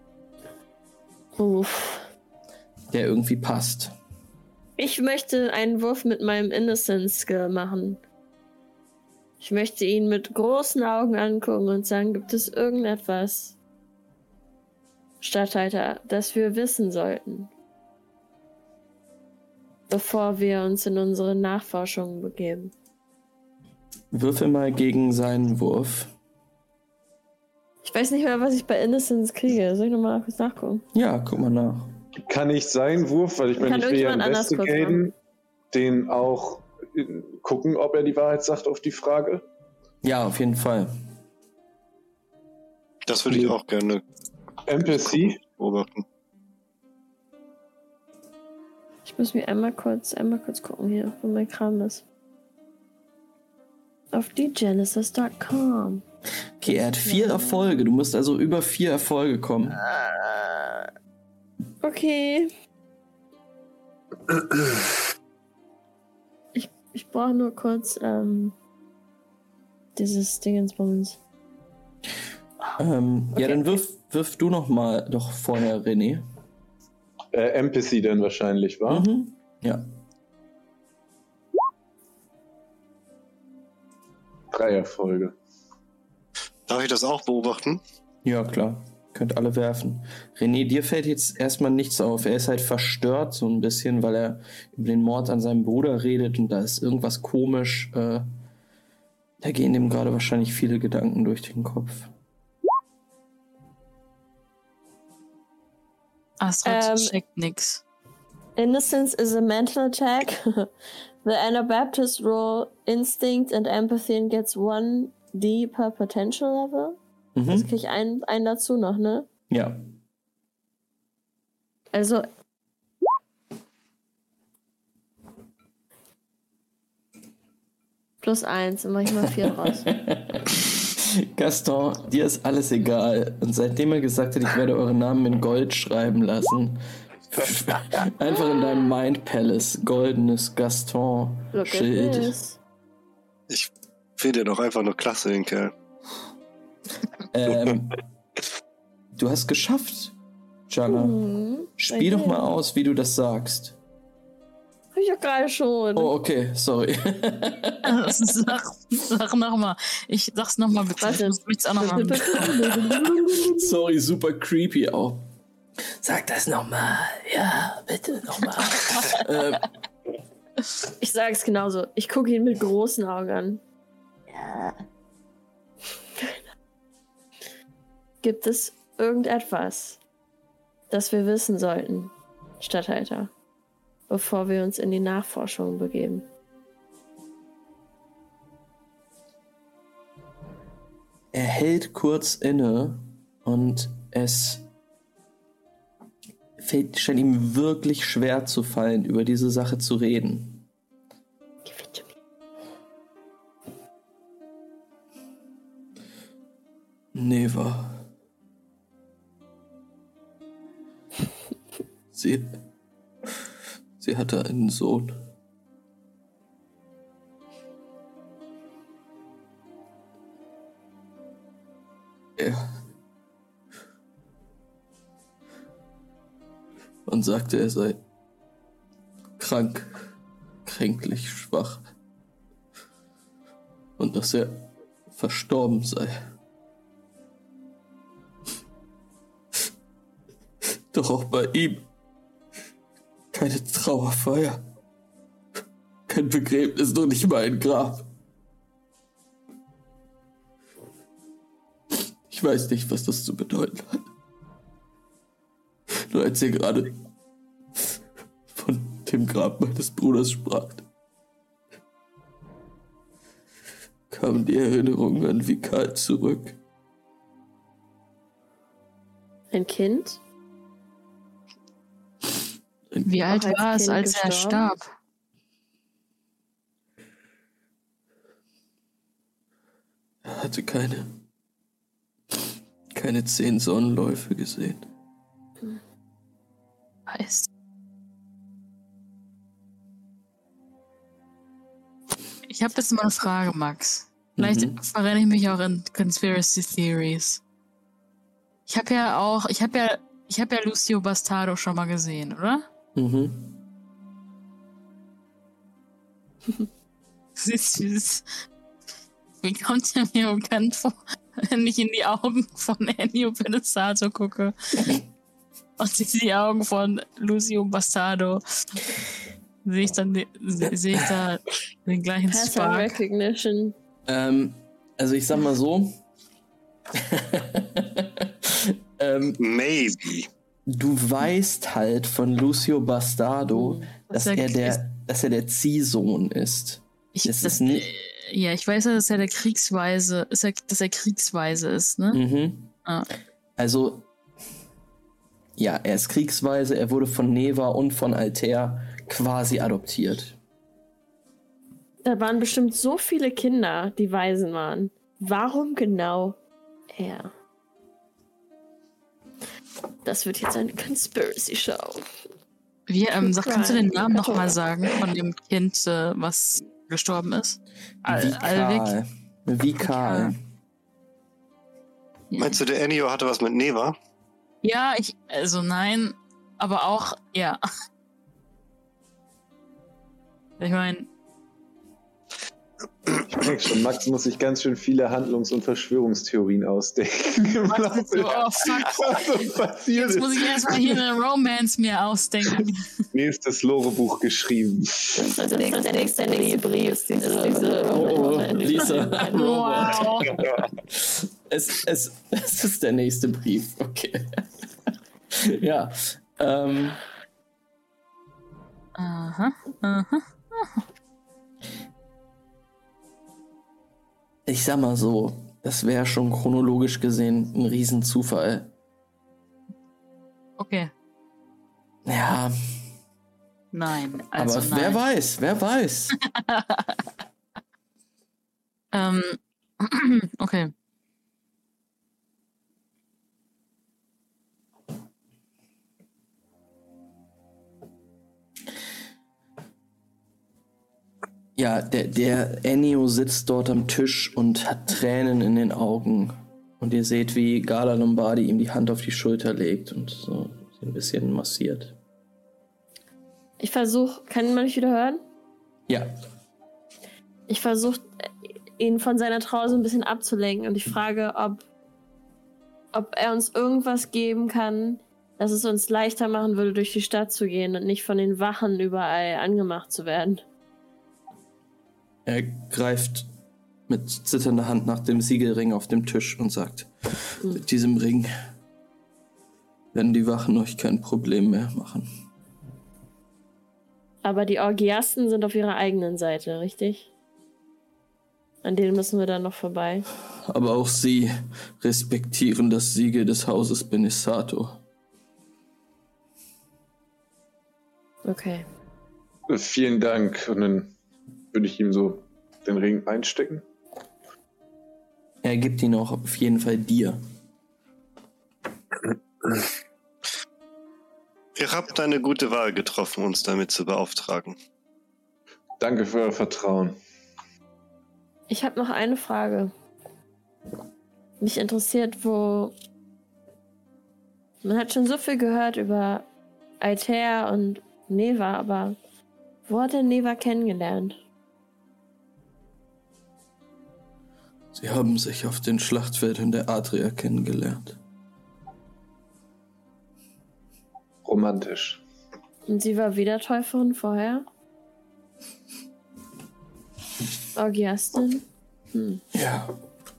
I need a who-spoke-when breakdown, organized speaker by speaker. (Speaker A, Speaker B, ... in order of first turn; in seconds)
Speaker A: 1.4-2.1, 4.8-8.0, 9.4-13.6, 15.2-17.5, 19.9-22.7, 27.8-30.9, 33.6-35.0, 49.1-52.0, 54.1-56.0, 56.7-57.7, 59.8-60.9, 61.8-62.5, 66.5-68.5, 70.0-71.2, 106.7-107.2, 108.6-110.7, 111.2-117.0, 117.5-119.3, 121.9-122.3, 128.2-129.9, 141.5-142.6, 150.9-152.5, 154.9-156.1, 161.0-163.7, 171.0-173.6, 174.3-174.8, 178.2-180.0, 180.9-183.3, 184.1-186.3, 201.7-202.1, 269.5-270.2, 273.2-274.7, 322.3-323.7, 352.0-356.4, 356.9-357.3, 360.0-362.1, 363.2-364.6, 395.2-400.4, 453.6-455.2, 457.5-461.6, 462.9-470.4, 484.2-487.1, 488.6-490.1, 498.2-498.6, 518.5-519.7, 521.4-522.7, 524.6-526.3, 526.8-529.0, 529.7-531.2, 542.7-544.5, 547.6-549.2
Speaker B: 2.9-4.0, 24.1-26.1, 30.9-31.9, 40.0-40.9, 56.6-59.8, 72.8-76.2, 78.9-79.8, 88.2-98.3, 99.4-102.1, 117.4-117.7, 119.5-119.8, 129.9-142.4, 147.3-148.0, 149.1-150.2, 150.7-151.2, 151.8-153.8, 155.9-158.1, 163.4-165.2, 166.0-169.7, 191.3-194.7, 196.6-200.6, 207.1-208.1, 212.1-212.5, 214.0-215.2, 222.4-222.7, 227.1-228.0, 229.4-230.0, 230.7-231.9, 234.0-236.2, 240.9-241.9, 243.3-244.6, 246.1-248.1, 252.3-254.1, 255.9-257.0, 258.5-260.9, 264.1-266.6, 280.2-281.1, 282.9-284.9, 294.4-294.8, 303.0-303.5, 324.1-326.0, 326.9-329.4, 330.7-337.9, 342.1-342.7, 343.6-344.1, 345.6-350.4, 368.1-370.4, 397.9-407.0, 414.5-418.7, 422.1-422.5, 424.4-426.1, 441.6-452.0, 472.3-473.3, 473.9-476.9, 477.4-478.3, 479.9-482.1, 490.4-494.8, 505.4-507.2, 534.7-538.0, 549.3-549.7
Speaker C: 32.2-35.1, 35.7-39.5, 44.7-45.4, 77.3-79.1, 84.5-85.3, 383.2-391.0, 393.1-395.2, 499.5-500.9, 501.5-503.6, 515.8-517.0, 541.2-542.0
Speaker D: 43.1-44.0, 44.8-46.0, 86.7-87.8, 143.5-145.7, 329.4-330.3, 372.4-374.0, 511.6-514.6
Speaker E: 106.4-107.8, 157.8-162.5, 273.1-274.9, 287.1-287.5, 292.5-297.4, 298.7-302.6, 307.4-308.3, 309.4-315.0, 315.8-318.4, 319.6-323.0, 333.5-334.8, 337.2-342.2, 362.9-368.9, 369.9-370.4, 372.3-372.6, 374.6-377.6, 380.6-381.1, 387.7-392.9, 399.8-400.2, 409.0-410.8, 420.6-420.9, 423.7-425.0, 426.2-427.0, 428.9-430.7